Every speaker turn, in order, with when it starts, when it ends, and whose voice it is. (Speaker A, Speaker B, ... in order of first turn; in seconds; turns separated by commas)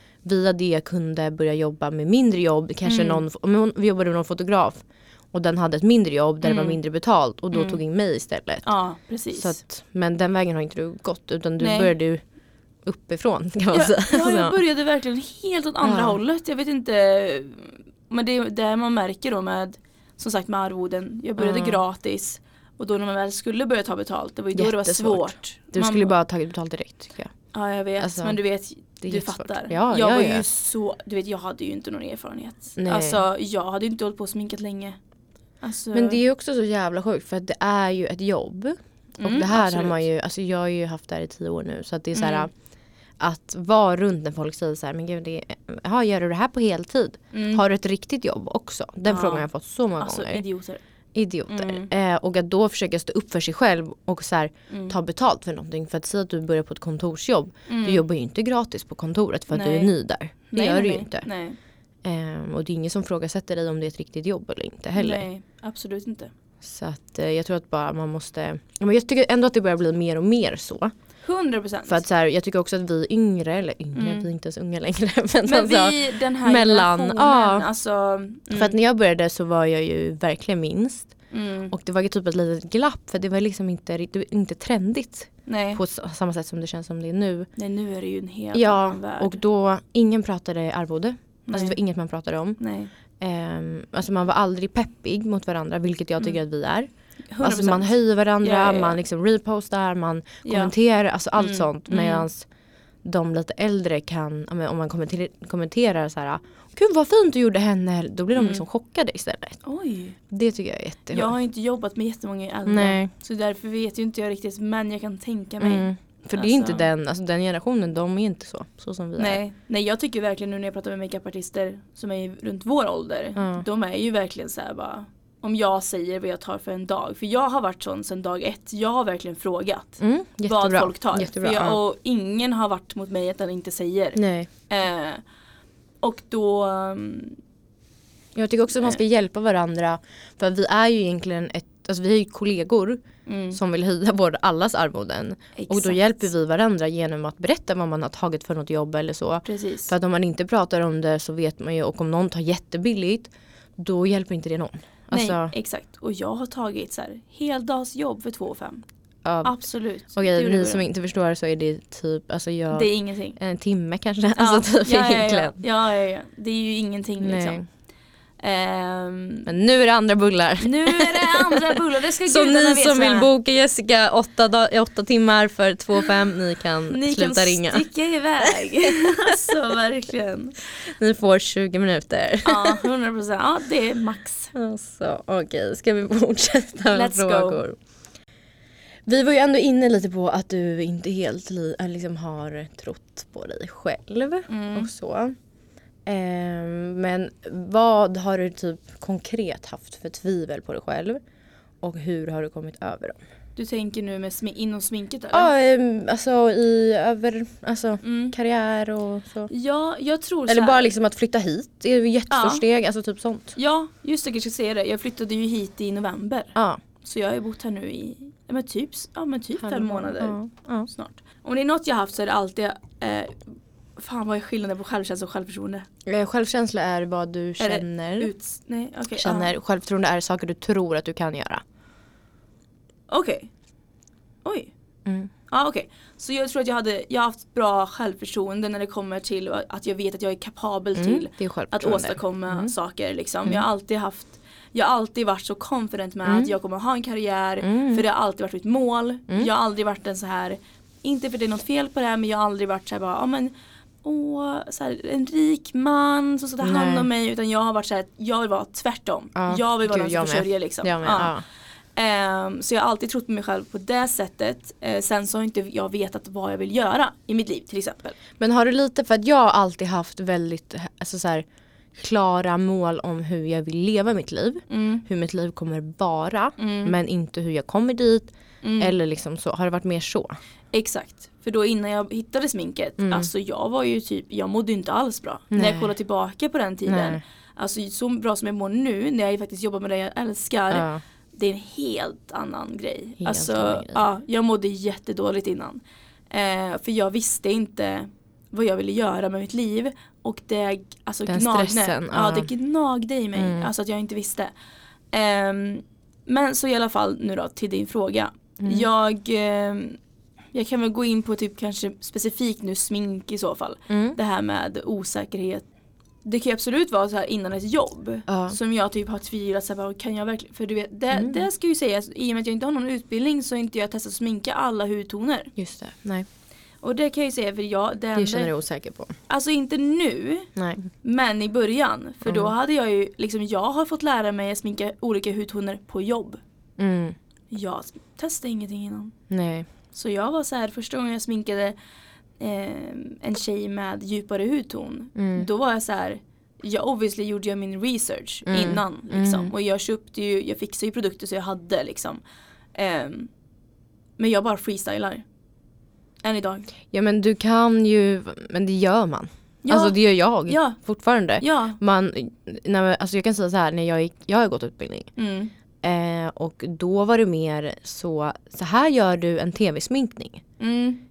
Speaker A: 0.2-8.7, Speaker B: 2.9-3.2, Speaker B: 6.4-6.8, Speaker B: 7.5-7.8, Speaker B: 8.6-9.6, Speaker A: 9.3-12.2, Speaker B: 11.6-11.9, Speaker A: 12.8-14.6, Speaker B: 13.7-26.1, Speaker A: 15.8-16.2, Speaker A: 21.4-21.8, Speaker A: 24.6-27.3, Speaker B: 27.5-35.0, Speaker A: 28.0-28.4, Speaker A: 29.0-30.5, Speaker A: 32.8-33.2, Speaker B: 35.6-36.2, Speaker A: 35.9-42.5, Speaker B: 39.2-40.0, Speaker B: 42.1-42.5, Speaker A: 43.2-50.4, Speaker B: 47.3-47.6, Speaker B: 49.1-49.5, Speaker B: 50.0-50.8, Speaker A: 51.1-61.3, Speaker B: 51.5-51.9, Speaker B: 54.7-55.0, Speaker B: 57.7-58.0, Speaker B: 59.5-59.9, Speaker B: 60.5-61.6, Speaker A: 62.0-65.3, Speaker B: 65.0-66.3, Speaker A: 66.6-70.9, Speaker B: 71.2-72.0, Speaker A: 71.9-77.7, Speaker B: 74.0-74.3, Speaker B: 75.5-78.7, Speaker A: 78.5-81.1, Speaker B: 81.3-81.7, Speaker A: 81.7-87.5, Speaker B: 85.5-85.8, Speaker B: 87.6-89.4, Speaker A: 88.5-92.6, Speaker B: 91.5-91.8, Speaker B: 92.6-92.9, Speaker A: 93.2-96.9, Speaker B: 97.3-99.0, Speaker A: 97.4-102.5, Speaker B: 100.4-100.7, Speaker B: 101.4-102.3, Speaker A: 103.0-109.6, Speaker B: 108.3-108.6, Speaker B: 109.6-110.2, Speaker A: 110.3-111.3, Speaker B: 111.1-116.9, Speaker A: 112.7-113.1, Speaker A: 115.6-119.4, Speaker B: 119.2-135.2, Speaker A: 123.4-123.7, Speaker A: 130.0-131.8, Speaker A: 134.2-134.5, Speaker B: 136.0-137.4, Speaker A: 138.3-155.5, Speaker B: 143.3-143.6, Speaker B: 145.6-146.3, Speaker B: 149.4-149.9, Speaker B: 155.1-158.8, Speaker A: 159.2-159.6, Speaker B: 159.4-160.8, Speaker A: 160.1-165.6, Speaker B: 162.7-163.4, Speaker B: 164.4-167.6, Speaker A: 167.2-167.7, Speaker B: 168.4-169.5, Speaker A: 169.5-177.9, Speaker B: 170.6-173.3, Speaker B: 176.9-180.7, Speaker A: 178.4-179.6, Speaker A: 180.8-182.9, Speaker B: 182.4-184.5, Speaker A: 184.5-187.8, Speaker B: 186.9-187.6, Speaker A: 189.1-195.3, Speaker B: 194.5-194.9, Speaker A: 196.1-201.2, Speaker A: 201.8-203.2, Speaker B: 203.6-205.5, Speaker A: 205.3-209.5, Speaker B: 208.0-208.3, Speaker B: 209.5-210.9, Speaker A: 210.5-213.6, Speaker B: 212.3-212.6, Speaker B: 213.6-220.4, Speaker A: 216.6-216.8, Speaker A: 219.6-220.9, Speaker B: 220.9-223.4, Speaker B: 224.0-225.8, Speaker A: 226.1-228.3, Speaker B: 227.6-229.5, Speaker A: 229.2-231.6, Speaker B: 233.1-233.5, Speaker B: 234.4-234.7, Speaker A: 235.1-235.3, Speaker B: 235.5-253.5, Speaker A: 241.0-242.7, Speaker A: 246.3-246.5, Speaker A: 247.6-248.0, Speaker B: 254.0-261.3, Speaker A: 256.6-257.1, Speaker A: 259.4-261.4, Speaker B: 262.0-268.2, Speaker A: 268.4-280.4, Speaker B: 274.7-275.1, Speaker B: 276.6-276.9, Speaker B: 278.6-278.9, Speaker B: 280.7-304.5, Speaker A: 283.0-283.3, Speaker A: 285.5-285.9, Speaker A: 286.9-287.2, Speaker A: 290.7-291.0, Speaker A: 293.2-294.0, Speaker A: 301.3-302.5, Speaker A: 303.4-303.7, Speaker B: 305.1-310.0, Speaker A: 308.6-308.9, Speaker B: 310.5-315.6, Speaker A: 313.9-314.2, Speaker B: 316.2-325.5, Speaker A: 318.3-318.6, Speaker A: 321.1-321.4, Speaker A: 325.6-326.3, Speaker B: 326.8-328.5, Speaker A: 328.2-329.2, Speaker B: 329.3-336.4, Speaker A: 330.6-330.9, Speaker A: 332.2-332.5, Speaker A: 336.8-337.2, Speaker B: 337.5-339.1, Speaker A: 339.3-339.7, Speaker B: 339.9-341.8, Speaker B: 342.4-352.2, Speaker A: 345.2-345.5, Speaker A: 348.5-349.5, Speaker B: 352.8-353.3, Speaker B: 354.2-355.2, Speaker B: 356.2-356.7, Speaker A: 356.9-365.1, Speaker B: 359.6-360.8, Speaker B: 361.4-361.8, Speaker B: 365.2-365.5, Speaker A: 365.8-370.4, Speaker B: 370.6-371.0